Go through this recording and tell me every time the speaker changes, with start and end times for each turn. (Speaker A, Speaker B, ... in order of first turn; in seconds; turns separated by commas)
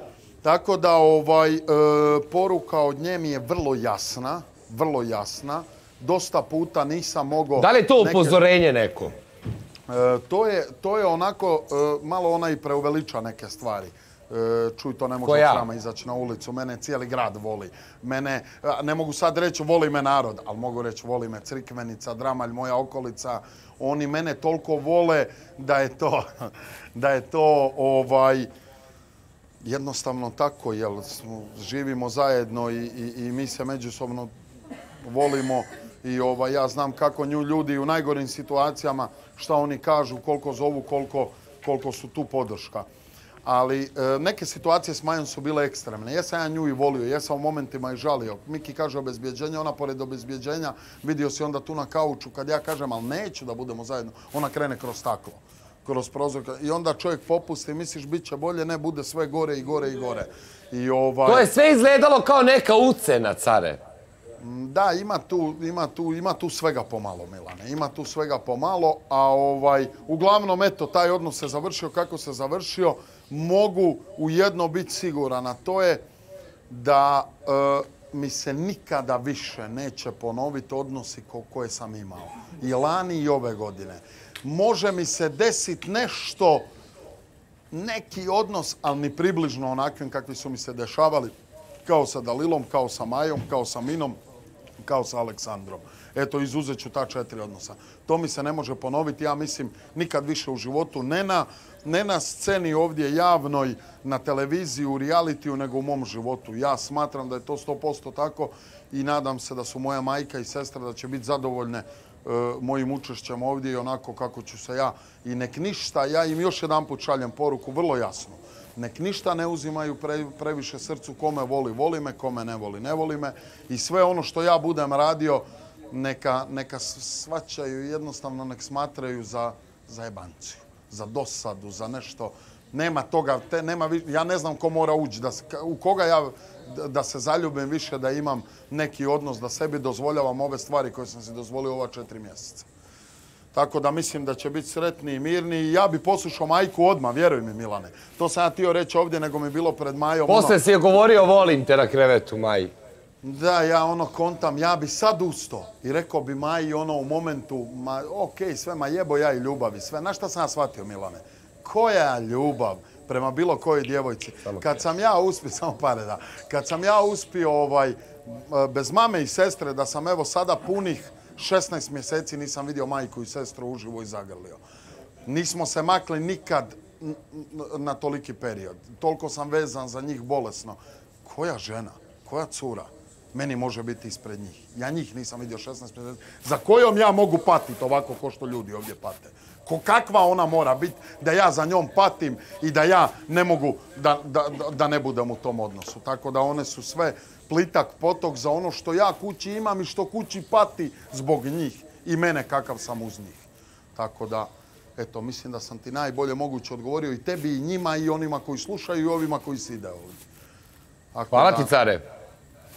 Speaker A: 0.4-8.4, Speaker B: 7.6-9.1, Speaker A: 9.9-28.5, Speaker B: 15.2-15.7, Speaker A: 29.6-34.3, Speaker A: 35.0-42.9, Speaker A: 43.4-61.5, Speaker B: 61.2-63.8, Speaker A: 64.4-76.0, Speaker A: 76.7-86.7, Speaker A: 87.7-91.3, Speaker A: 91.8-94.2, Speaker A: 94.8-142.7, Speaker A: 143.5-150.6, Speaker B: 150.3-152.7, Speaker A: 153.2-174.6, Speaker A: 175.2-210.2, Speaker A: 211.1-211.7, Speaker B: 211.3-212.0